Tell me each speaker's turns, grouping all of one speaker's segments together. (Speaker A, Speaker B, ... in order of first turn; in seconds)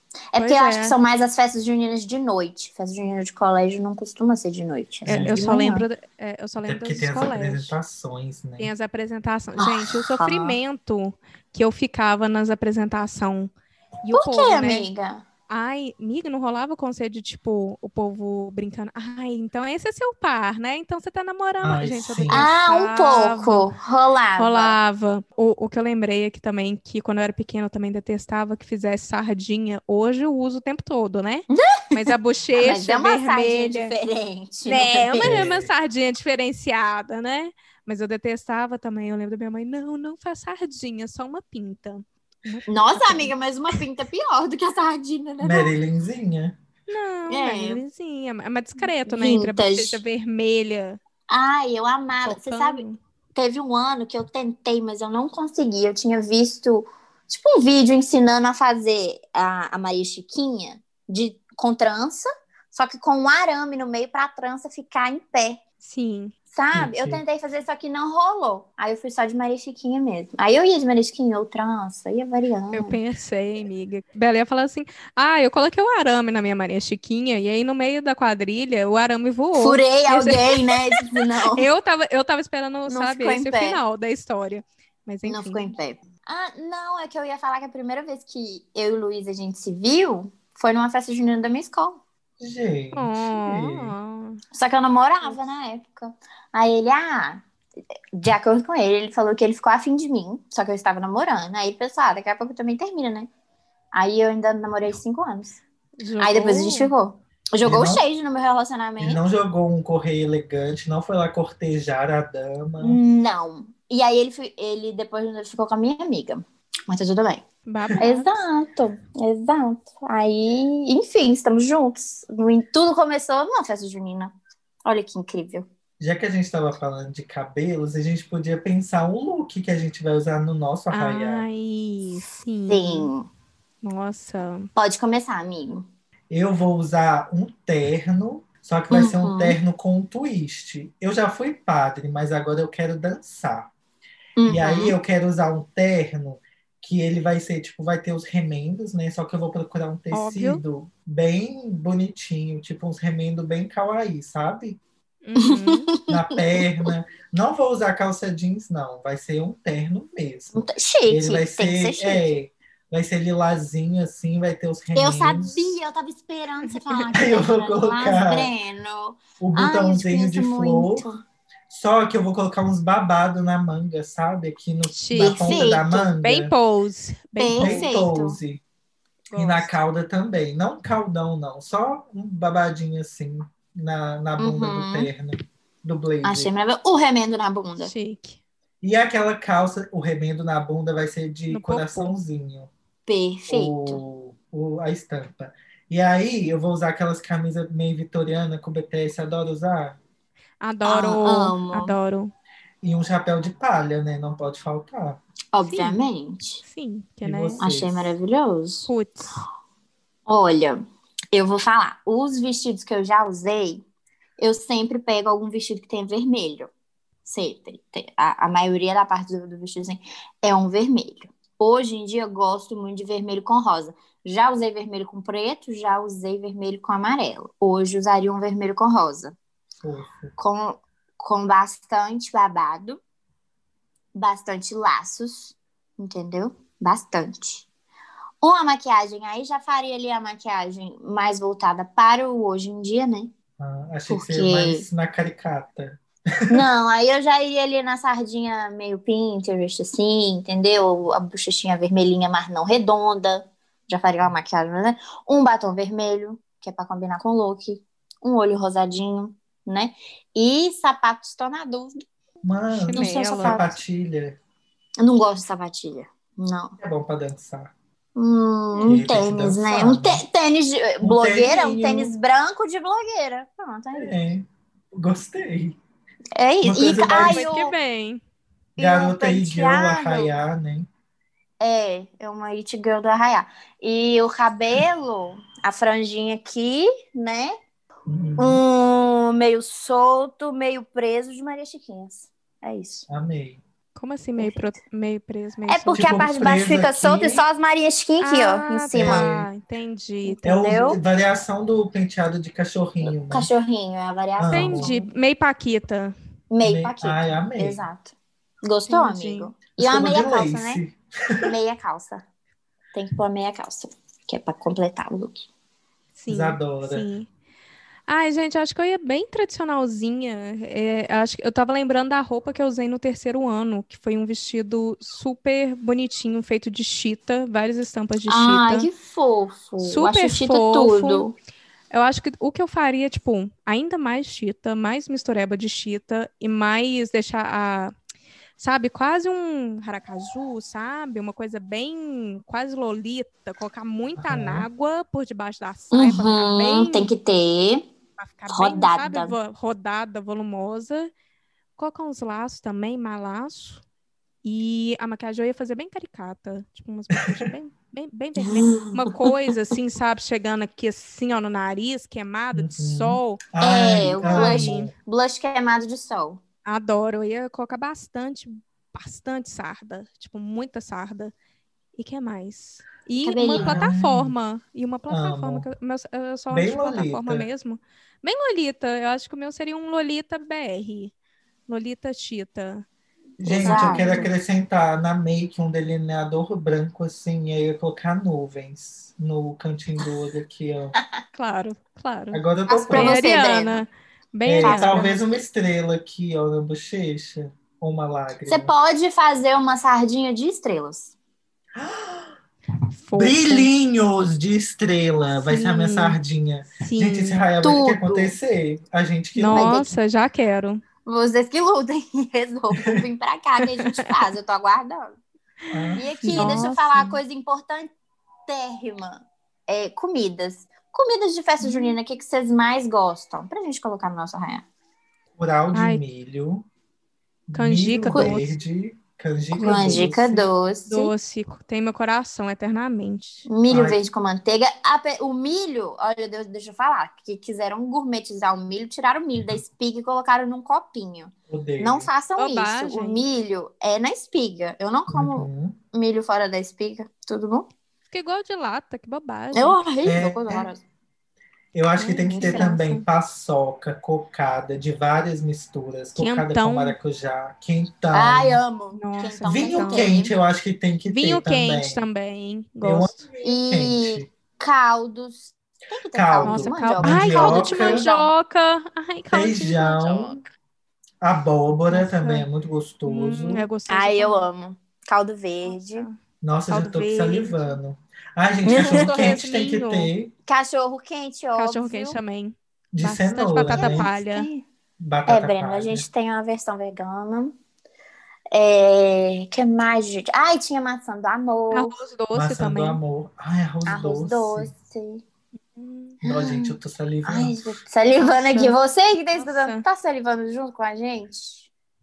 Speaker A: 0.3-5.9, 9.6-10.6, 14.1-15.2, 22.3-24.8, 31.5-35.5, 42.7-45.7, 47.3-47.8, 48.8-50.0, 51.3-52.8, 53.3-65.6, 66.5-73.0, 79.5-81.7, 82.9-83.8, 85.2-92.0, 94.5-97.4, 98.1-103.3, 103.9-105.6, 106.2-109.2, 112.8-117.4, 118.0-125.7, 132.7-133.3, 134.8-135.8, 138.9-139.6, 144.4-144.9, 155.4-156.9, 160.5-162.3, 164.9-171.2, 175.2-176.1, 177.4-178.4, 184.4-185.1, 186.2-187.9, 193.1-194.0, 200.8-201.9, 205.5-206.6, 207.6-208.9, 210.3-210.8, 211.3-213.8, 214.4-216.7, 217.2-229.3, 230.4-233.0, 234.1-237.7, 238.4-243.3, 244.1-244.8, 246.5-261.9, 262.9-263.8, 265.0-266.8, 268.1-274.1, 276.3-277.7, 278.8-280.3, 281.6-287.5, 288.4-293.1, 294.4-294.7, 295.7-299.3, 300.2-301.0, 303.0-305.1, 306.5-310.8, 311.4-312.2, 312.9-315.5, 328.3-331.3, 345.9-347.9, 348.5-349.4, 358.4-359.5, 363.6-366.4, 373.2-373.9, 383.4-384.3, 392.7-393.8, 394.6-395.1, 398.5-401.1, 407.6-408.4, 409.5-409.9, 411.0-415.2, 416.0-417.9, 418.5-424.6, 429.5-431.1, 433.5-447.7, 449.5-450.8, 452.3-452.7, 458.1-460.3, 463.4-468.3, 473.9-476.1, 478.6-479.4, 480.5-482.2, 483.7-484.6, 485.3-487.5, 488.5-491.9, 493.9-495.2, 496.2-501.7
Speaker B: 0.4-0.9, 5.1-7.8, 8.6-13.5, 14.0-14.9, 15.5-23.7, 24.4-33.9, 34.6-43.3, 46.9-51.0, 52.2-53.0, 65.8-66.3, 72.7-85.7, 92.9-94.4, 106.0-106.9, 117.7-118.4, 130.9-133.1, 133.8-134.7, 150.1-150.6, 155.2-155.9, 166.7-167.0, 174.9-175.7, 176.2-177.9, 179.3-179.8, 187.8-188.4, 191.5-192.1, 200.6-202.3, 205.6-206.0, 206.6-207.6, 208.8-209.4, 262.7-263.6, 277.1-278.2, 293.9-296.2, 298.2-300.4, 304.5-306.1, 308.9-309.5, 316.1-317.3, 318.1-328.9, 329.8-331.2, 331.9-337.9, 338.6-347.1, 348.2-351.1, 351.8-353.8, 354.4-363.4, 364.2-364.9, 366.6-371.3, 371.9-381.1, 381.7-382.9, 383.6-384.3, 391.3-395.2, 403.0-403.7, 405.4-406.2, 406.8-407.5, 409.4-410.8, 413.6-414.2, 416.3-417.2, 421.6-422.0, 425.7-426.0, 427.5-428.5, 429.6-430.1, 430.9-433.5, 442.4-443.2, 448.1-449.8, 451.9-453.0, 456.1-456.9, 458.9-460.1, 461.1-463.2, 466.4-470.4, 471.9-472.5, 473.1-474.4, 475.6-476.2, 476.7-477.8, 478.7-480.1, 481.5-484.5, 491.7-493.0, 495.7-496.2, 498.2-498.8, 499.3-499.8
Speaker C: 5.0-5.5, 6.7-8.7, 21.6-22.5, 35.2-35.7, 45.4-46.6, 66.7-67.2, 92.4-93.9, 107.6-108.0, 109.0-113.0, 126.0-131.4, 136.3-143.7, 144.5-154.8, 156.1-165.8, 167.1-168.5, 169.4-171.1, 171.7-176.5, 177.6-178.6, 179.3-186.5, 188.8-192.7, 193.5-200.0, 202.8-205.2, 207.2-208.2, 229.8-230.3, 243.6-246.7, 262.4-264.4, 266.8-267.7, 268.8-270.2, 271.0-272.1, 273.9-275.8, 276.6-277.5, 278.8-280.9, 288.1-288.6, 293.1-293.6, 295.9-297.4, 298.9-299.5, 300.4-303.5, 304.4-304.9, 306.6-307.9, 309.8-311.5, 316.3-317.1, 344.2-344.7, 357.1-357.4, 362.5-364.9, 373.5-374.3, 375.1-375.7, 376.5-377.5, 383.4-391.0, 392.3-393.2, 394.4-398.7, 401.8-402.3, 403.1-409.8, 415.7-416.7, 425.4-426.6, 427.5-430.4, 433.7-434.0, 441.5-442.1, 445.1-445.8, 450.0-450.7, 451.7-458.6, 459.4-462.0, 462.8-464.3, 466.1-468.1, 469.3-470.4, 471.2-473.6, 476.4-480.3, 482.9-484.1, 485.0-486.1, 492.3-494.7, 496.2-497.6